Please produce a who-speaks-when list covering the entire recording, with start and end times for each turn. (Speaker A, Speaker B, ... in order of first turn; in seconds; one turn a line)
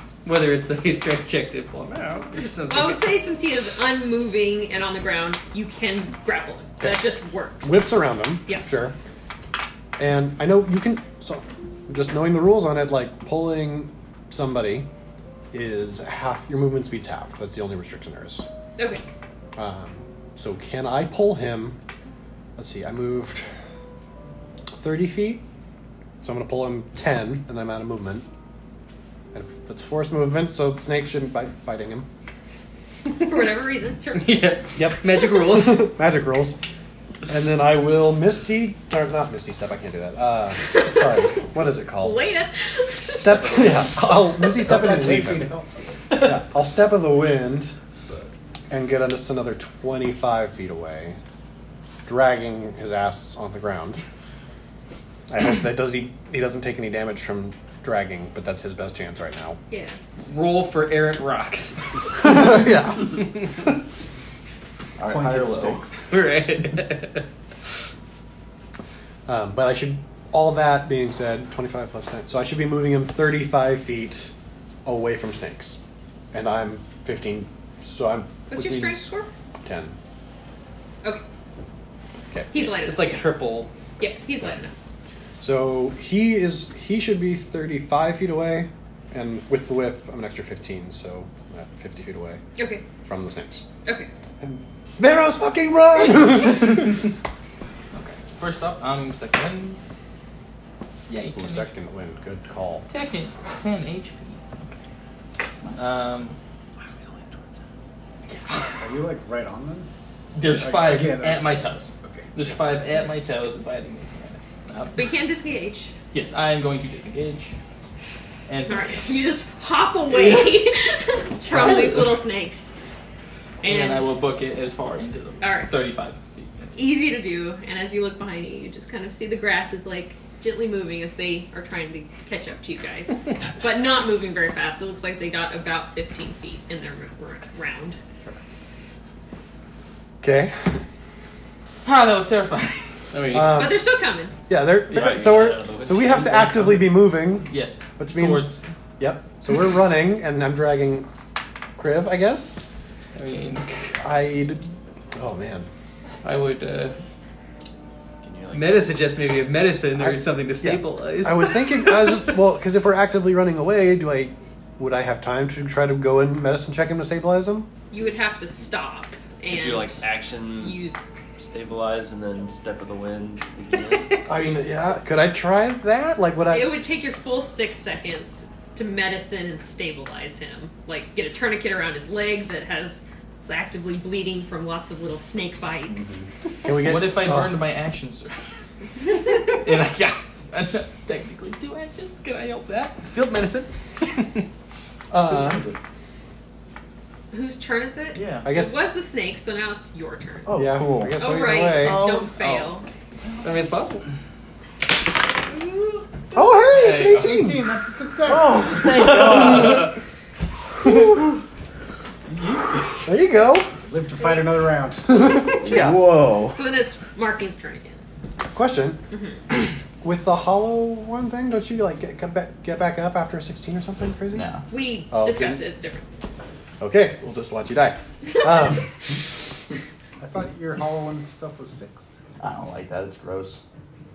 Speaker A: 0.2-3.1
Speaker B: 2.7-7.9
Speaker C: 6.8-7.1
Speaker C: 7.6-9.0
Speaker C: 10.0-14.9
Speaker C: 15.5-18.5
Speaker B: 18.8-19.0
Speaker C: 19.6-21.8
Speaker C: 22.6-23.5
Speaker C: 24.7-25.4
Speaker C: 26.2-28.2
Speaker C: 29.3-32.1
Speaker B: 33.2-34.6
Speaker A: 34.1-35.9
Speaker C: 34.8-36.6
Speaker C: 37.3-42.2
Speaker B: 42.0-43.9
Speaker C: 43.1-45.5
Speaker D: 44.5-46.1
Speaker C: 46.1-47.8
Speaker C: 48.7-51.2
Speaker C: 52.1-54.0
Speaker C: 55.3-59.6
Speaker B: 59.7-60.0
Speaker A: 60.3-62.5
Speaker C: 62.2-63.7
Speaker E: 65.0-65.9
Speaker D: 65.0-66.0
Speaker A: 66.1-67.2
Speaker C: 69.3-74.3
Speaker C: 74.8-75.8
Speaker C: 76.3-79.1
Speaker B: 78.5-79.3
Speaker C: 79.6-80.0
Speaker C: 82.3-82.8
Speaker B: 82.5-83.3
Speaker A: 82.9-83.7
Speaker B: 84.0-84.7
Speaker C: 85.4-92.4
Speaker B: 92.6-92.8
Speaker C: 92.9-93.7
Speaker C: 94.4-97.1
Speaker F: 98.0-99.8
Speaker F: 101.1-101.7
Speaker C: 101.3-102.9
Speaker F: 102.9-104.8
Speaker F: 105.8-106.4
Speaker D: 108.8-109.9
Speaker F: 110.3-115.1
Speaker D: 110.4-112.3
Speaker B: 114.9-115.9
Speaker F: 116.1-117.6
Speaker F: 118.5-119.2
Speaker B: 118.7-122.7
Speaker F: 120.2-120.5
Speaker C: 121.5-122.0
Speaker F: 121.5-122.0
Speaker F: 123.6-126.9
Speaker B: 123.6-124.1
Speaker B: 125.4-125.7
Speaker B: 126.8-138.0
Speaker C: 140.2-140.8
Speaker F: 141.8-143.4
Speaker A: 143.1-143.6
Speaker C: 143.3-143.9
Speaker B: 143.5-144.3
Speaker C: 144.5-151.1
Speaker G: 144.8-147.0
Speaker F: 147.5-148.6
Speaker C: 151.8-152.7
Speaker A: 153.2-153.6
Speaker F: 153.2-153.6
Speaker C: 154.0-155.7
Speaker A: 156.2-156.9
Speaker G: 158.2-159.0
Speaker A: 158.5-162.1
Speaker C: 159.9-167.7
Speaker B: 167.9-171.2
Speaker G: 169.5-170.9
Speaker G: 171.4-174.2
Speaker C: 174.2-176.8
Speaker B: 176.5-186.1
Speaker E: 185.9-186.3
Speaker C: 186.6-187.7
Speaker F: 186.7-188.4
Speaker F: 189.2-193.0
Speaker A: 193.1-193.7
Speaker C: 195.1-195.7
Speaker E: 195.2-195.8
Speaker B: 197.3-200.5
Speaker E: 198.1-198.5
Speaker C: 198.4-198.8
Speaker E: 200.5-201.2
Speaker C: 200.5-202.0
Speaker B: 201.2-202.9
Speaker F: 201.8-202.9
Speaker A: 201.9-202.3
Speaker A: 203.4-204.1
Speaker B: 205.5-206.1
Speaker C: 206.3-207.6
Speaker F: 206.7-207.4
Speaker D: 207.2-209.2
Speaker E: 208.2-209.9
Speaker C: 210.8-211.2
Speaker C: 213.1-213.7
Speaker D: 213.9-215.5
Speaker C: 215.1-216.1
Speaker E: 215.6-216.6
Speaker B: 216.5-218.0
Speaker C: 218.5-219.0
Speaker B: 219.1-219.4
Speaker C: 220.0-224.5
Speaker E: 224.3-224.7
Speaker B: 224.7-226.1
Speaker C: 225.1-225.6
Speaker C: 226.8-228.9
Speaker D: 230.2-232.2
Speaker E: 232.4-233.6